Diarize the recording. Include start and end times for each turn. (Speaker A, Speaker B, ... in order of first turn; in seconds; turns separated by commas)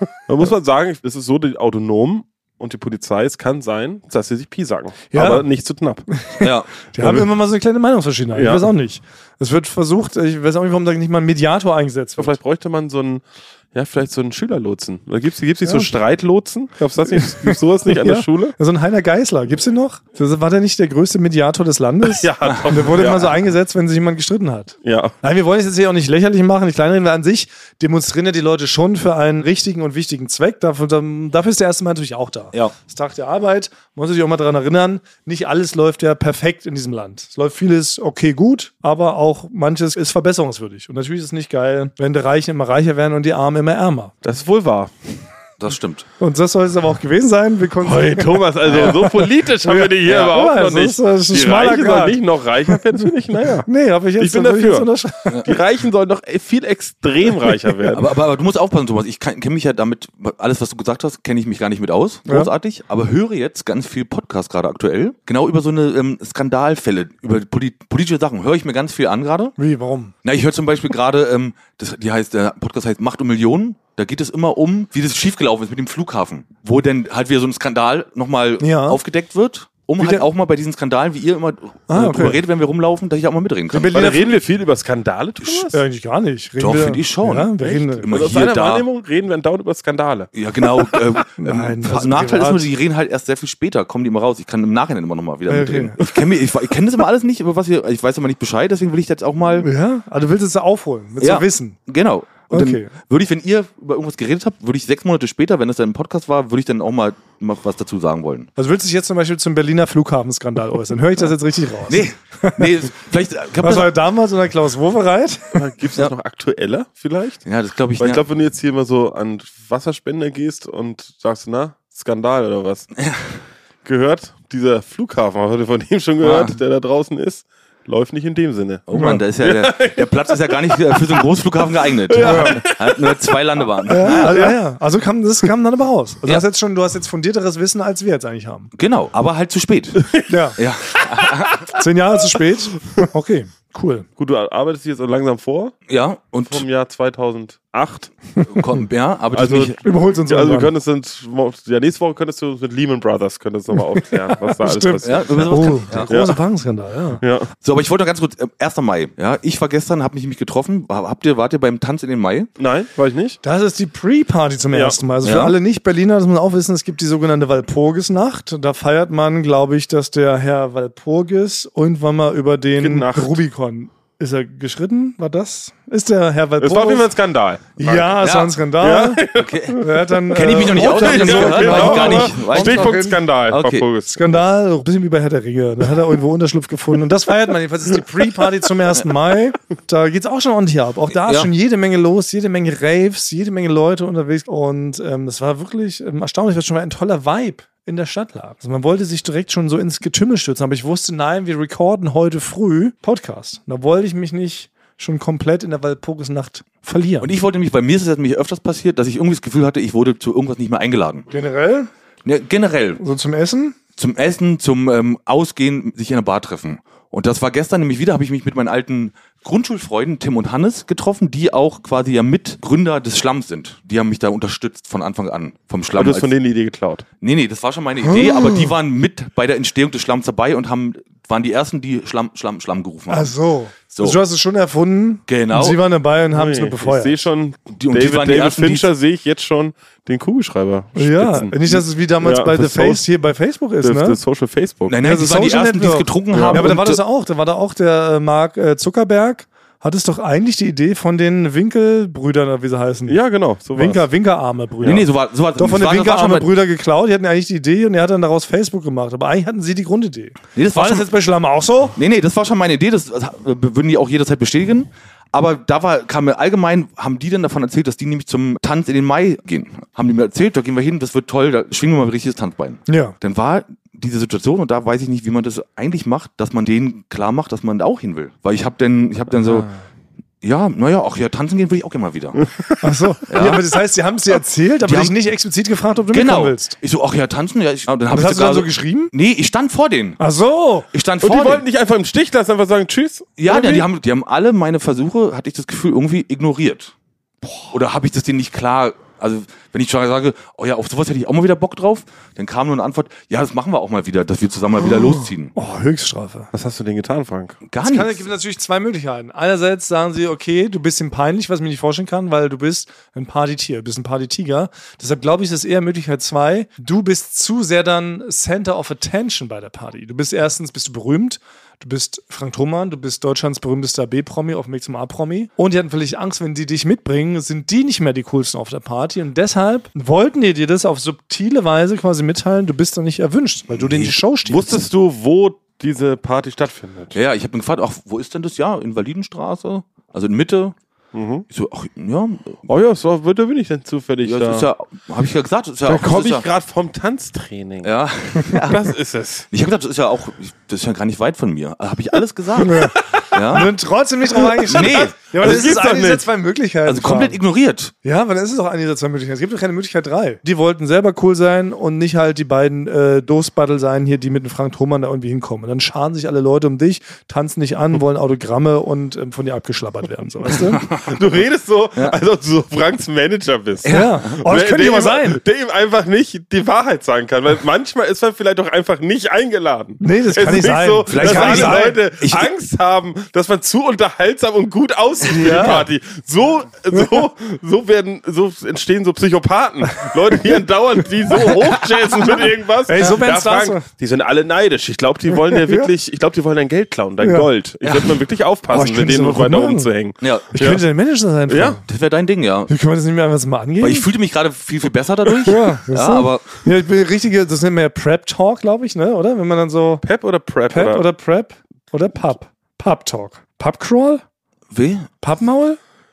Speaker A: 0.3-6.0, Speaker B: 5.1-5.5, Speaker B: 6.1-12.4, Speaker C: 6.4-6.7, Speaker A: 7.0-7.3, Speaker A: 8.3-8.7, Speaker A: 12.2-18.5, Speaker B: 15.6-15.9, Speaker B: 17.1-44.1, Speaker A: 22.1-23.4, Speaker A: 24.8-25.1, Speaker A: 44.2-44.9, Speaker C: 45.6-46.1, Speaker B: 46.2-52.2, Speaker A: 47.8-53.7, Speaker B: 53.6-55.4, Speaker A: 54.2-58.1, Speaker C: 57.9-69.6, Speaker B: 69.6-70.1, Speaker C: 70.2-84.0, Speaker B: 78.6-79.0, Speaker B: 81.9-82.4, Speaker B: 83.7-84.3, Speaker A: 83.9-85.8, Speaker B: 85.7-88.2, Speaker C: 86.6-88.9, Speaker A: 88.1-90.3, Speaker C: 90.3-99.7, Speaker B: 91.4-92.7, Speaker B: 95.5-96.1, Speaker B: 99.6-101.9, Speaker C: 101.2-108.5, Speaker B: 102.5-102.9, Speaker B: 108.6-112.7, Speaker C: 111.9-113.9, Speaker B: 113.6-115.6, Speaker A: 115.5-117.4, Speaker C: 117.5-118.2, Speaker A: 118.0-122.9, Speaker C: 123.0-123.4, Speaker A: 123.8-131.2, Speaker C: 126.2-126.6, Speaker C: 128.9-134.4, Speaker B: 128.9-129.2, Speaker A: 132.1-134.5, Speaker B: 132.2-132.6, Speaker B: 133.9-138.7, Speaker C: 138.8-141.7, Speaker B: 140.3-140.6, Speaker B: 141.7-144.1, Speaker A: 144.2-145.8, Speaker C: 145.9-146.6, Speaker A: 146.5-148.2, Speaker C: 148.4-149.8, Speaker A: 149.3-156.4, Speaker B: 149.8-150.7, Speaker B: 154.4-157.2, Speaker C: 155.0-156.1, Speaker A: 157.2-157.5, Speaker C: 157.6-162.5, Speaker A: 162.6-163.4, Speaker B: 163.4-177.1, Speaker A: 164.7-165.0, Speaker C: 165.2-165.6, Speaker A: 172.8-173.4, Speaker A: 176.6-184.2, Speaker B: 177.8-183.2, Speaker C: 178.2-178.5, Speaker C: 179.3-183.8, Speaker B: 184.1-207.3, Speaker C: 191.2-191.5, Speaker C: 207.2-211.3, Speaker B: 211.3-211.9, Speaker C: 212.2-213.0, Speaker B: 213.0-213.8, Speaker C: 214.0-226.3, Speaker A: 225.9-227.1, Speaker C: 227.2-233.3, Speaker B: 228.0-228.7, Speaker B: 233.1-237.2, Speaker C: 233.9-234.2, Speaker C: 235.3-235.8, Speaker A: 236.3-243.0, Speaker C: 237.7-238.9, Speaker B: 241.0-244.2, Speaker A: 243.8-245.0, Speaker C: 244.9-247.0, Speaker B: 245.0-262.0, Speaker A: 246.3-246.8, Speaker A: 253.1-254.1, Speaker C: 254.8-256.5, Speaker C: 260.6-261.1, Speaker C: 262.0-279.7, Speaker B: 272.9-273.2, Speaker B: 279.3-279.7, Speaker C: 280.4-282.5, Speaker A: 282.4-282.8, Speaker B: 282.8-286.8, Speaker C: 283.3-283.6, Speaker C: 284.9-285.1, Speaker C: 286.1-290.2, Speaker B: 288.1-289.1, Speaker B: 290.2-290.9, Speaker C: 290.9-291.6, Speaker A: 291.2-293.9, Speaker C: 293.4-296.9, Speaker B: 297.4-297.7, Speaker C: 297.7-305.5, Speaker B: 305.6-306.5, Speaker A: 306.5-307.6, Speaker C: 307.7-308.2, Speaker B: 307.8-334.8, Speaker C: 333.8-334.1, Speaker A: 334.5-337.1, Speaker C: 337.1-340.8, Speaker A: 341.1-341.4, Speaker C: 341.5-342.6, Speaker A: 342.7-344.7, Speaker C: 344.2-346.5, Speaker A: 345.9-347.9, Speaker C: 347.8-348.8, Speaker A: 348.6-349.5, Speaker C: 349.5-353.7, Speaker B: 352.6-353.0, Speaker A: 352.8-353.6, Speaker B: 353.5-357.4, Speaker A: 354.4-356.3, Speaker C: 354.7-355.5, Speaker C: 356.9-357.9, Speaker B: 358.0-370.9, Speaker A: 371.1-400.8, Speaker C: 373.9-374.1, Speaker B: 373.9-375.4, Speaker B: 380.0-382.0, Speaker C: 381.1-382.5, Speaker B: 385.3-385.9, Speaker B: 386.9-387.3, Speaker B: 392.9-393.9, Speaker B: 395.5-395.9, Speaker B: 397.2-397.5, Speaker B: 398.7-399.9, Speaker C: 400.2-400.5, Speaker B: 400.5-401.8, Speaker A: 401.5-401.8, Speaker C: 401.9-402.7, Speaker B: 402.7-404.1, Speaker C: 403.8-406.5, Speaker B: 405.4-410.1, Speaker A: 410.0-411.0, Speaker B: 410.7-414.2, Speaker C: 414.7-415.1, Speaker B: 415.2-415.8